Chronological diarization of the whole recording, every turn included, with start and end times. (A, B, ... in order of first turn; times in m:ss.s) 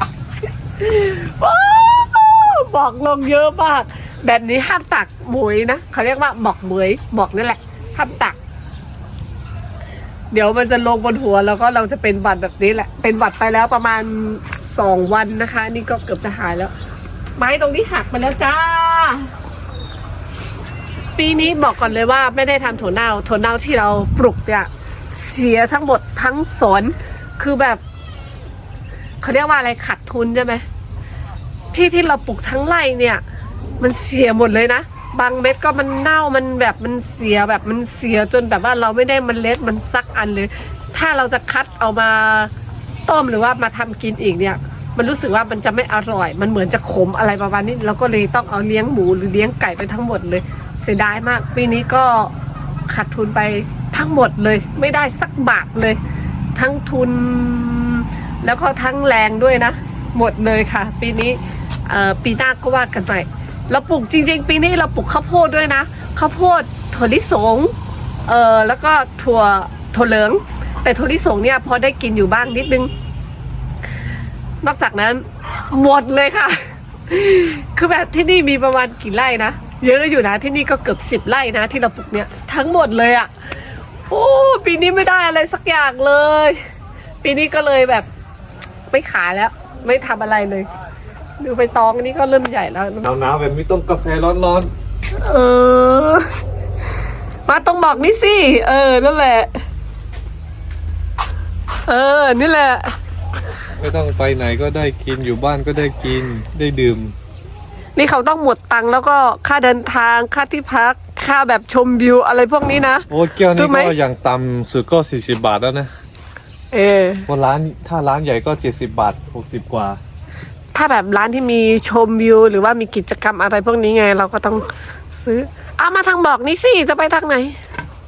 0:00.8-0:08.4 A
0:10.3-0:16.7 A
0:17.4-0:19.3 A
0:21.2-0:27.8 A
0:29.2-0:30.6 A
0:31.7-0:33.2 A
0:33.8-0:42.5 A
0:43.1-0:52.3 A
0:52.9-0:56.0 A
0:56.6-1:07.7 A
1:08.3-1:12.9 A
1:14.6-1:23.3 A
1:24.1-1:26.6 A
1:27.2-1:28.1 A
1:28.9-1:30.7 A
1:31.4-1:33.1 A
1:33.0-1:34.7 B
1:35.2-1:36.3 A
1:37.5-1:39.5 A
1:41.9-1:42.9 A
1:43.8-1:47.2 B
1:48.0-1:53.9 A
1:53.1-1:55.9 B
1:56.7-1:57.3 A
1:57.3-2:00.0 B
2:00.7-2:07.6 A